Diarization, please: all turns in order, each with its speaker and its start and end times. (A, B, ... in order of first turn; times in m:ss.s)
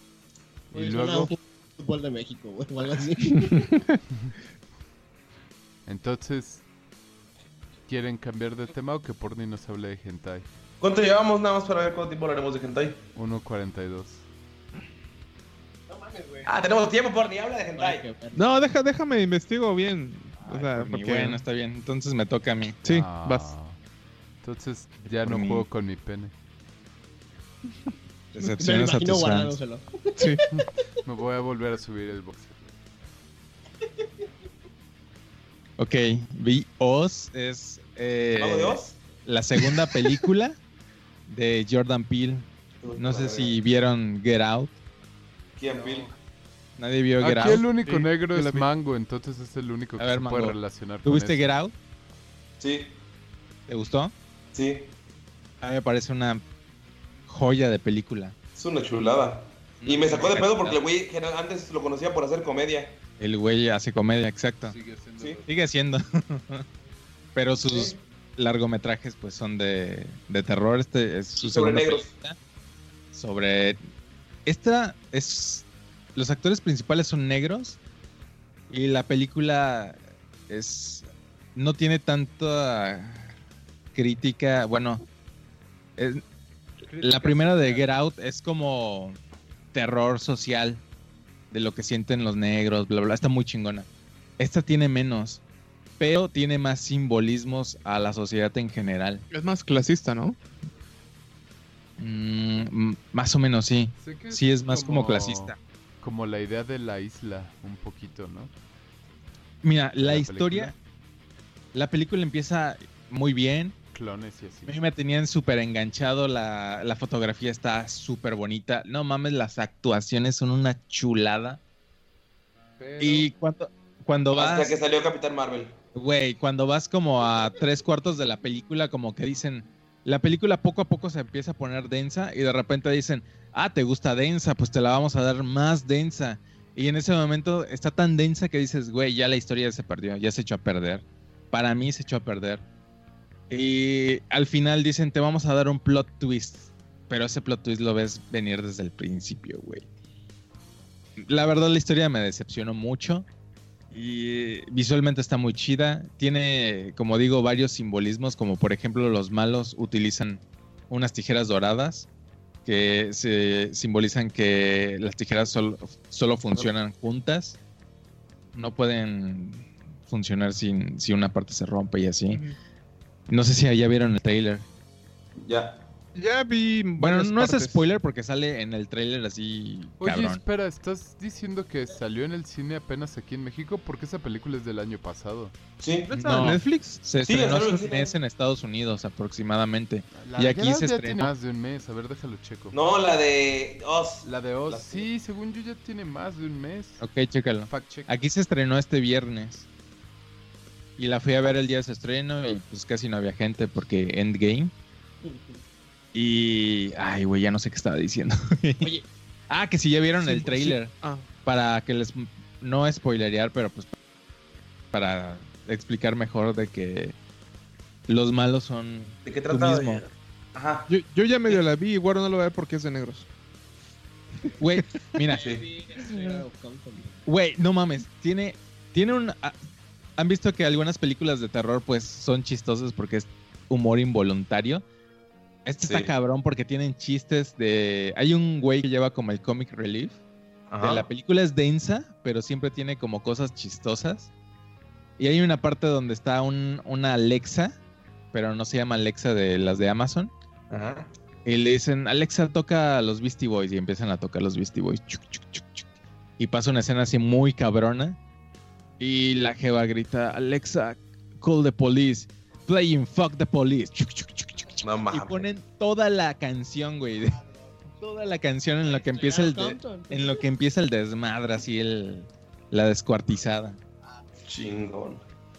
0:00.7-0:01.3 A
0:00.7-0:03.8 B
0:05.9-0:06.6 A
0:07.9-0:10.5 A
0:10.8-0:13.0 C
0:13.2-0:14.2 A
0:15.9-0:16.5 B
0:16.4-0:18.1 C
0:17.8-0:18.5 B
0:18.4-0:21.4 D
0:20.5-0:22.8 E
0:22.8-0:23.5 D
0:22.8-0:23.8 A
0:24.4-0:26.3 A
0:25.2-0:25.6 E
0:28.3-0:29.6 E
0:28.6-0:30.5 B
0:30.2-0:30.4 D
0:30.5-0:32.7 A
0:35.8-0:40.6 E
0:38.3-0:39.0 C
0:41.3-0:44.8 E
0:42.8-0:43.6 C
0:45.6-0:46.1 C
0:46.8-0:47.6 E
0:47.2-0:51.5 A
0:47.8-0:48.7 D
0:50.0-0:51.7 E
0:52.6-0:53.0 C
0:53.7-0:54.1 E
0:54.5-0:54.9 C
0:55.6-0:56.4 E
0:57.3-0:58.4 E
0:58.6-1:03.0 C
0:59.8-1:00.8 E
1:03.2-1:04.8 E
1:04.6-1:05.5 A
1:05.5-1:06.6 E
1:07.4-1:12.4 E
1:07.7-1:08.0 C
1:11.4-1:12.1 C
1:13.1-1:13.8 E
1:14.5-1:17.8 E
1:18.7-1:23.3 E
1:24.0-1:25.0 E
1:26.0-1:26.2 E
1:26.9-1:27.9 A
1:27.0-1:29.2 E
1:29.7-1:30.8 E
1:31.5-1:35.4 E
1:36.0-1:39.2 E
1:39.3-1:40.4 D
1:42.0-1:45.6 E
1:44.0-1:48.5 A
1:49.6-1:50.8 E
1:50.0-1:50.8 A
1:51.7-1:53.8 E
1:53.9-1:54.8 A
1:54.7-2:01.6 E
2:02.8-2:03.3 A
2:03.0-2:04.8 E
2:04.3-2:05.7 C
2:05.9-2:22.6 E
2:23.5-2:29.9 E
2:31.2-2:33.3 E
2:33.9-2:42.1 E
2:42.6-2:47.6 E
2:48.5-2:52.4 E
2:53.3-2:54.7 E
2:55.4-2:55.8 C
2:56.2-2:57.8 D
2:57.0-3:00.4 E
3:00.0-3:05.5 A
3:05.8-3:06.5 C
3:06.1-3:11.3 E
3:06.3-3:07.0 D
3:07.2-3:08.2 C
3:10.1-3:12.8 A
3:12.7-3:15.1 C
3:14.2-3:17.0 A
3:17.0-3:19.7 E
3:17.7-3:18.1 A
3:21.0-3:24.7 E
3:25.2-3:25.6 B
3:26.1-3:29.0 E
3:29.5-3:30.9 E
3:30.2-3:31.2 D
3:31.4-3:33.9 E
3:34.9-3:37.2 E
3:38.1-3:40.0 E
3:39.3-3:40.9 C
3:40.9-3:43.3 D
3:44.6-3:45.5 E
3:45.2-3:47.2 B
3:45.4-3:45.7 C
3:47.3-3:49.6 E
3:50.2-3:54.8 E
3:55.6-4:00.2 E
3:55.8-3:56.1 C
4:00.7-4:01.1 C
4:00.8-4:04.3 E
4:05.2-4:07.8 E
4:08.3-4:10.3 E
4:10.7-4:11.1 C
4:11.4-4:15.9 E
4:16.4-4:18.2 E
4:19.0-4:27.4 E
4:24.8-4:25.5 C
4:27.2-4:27.8 B
4:28.0-4:33.8 E
4:28.8-4:30.4 B
4:34.4-4:35.2 C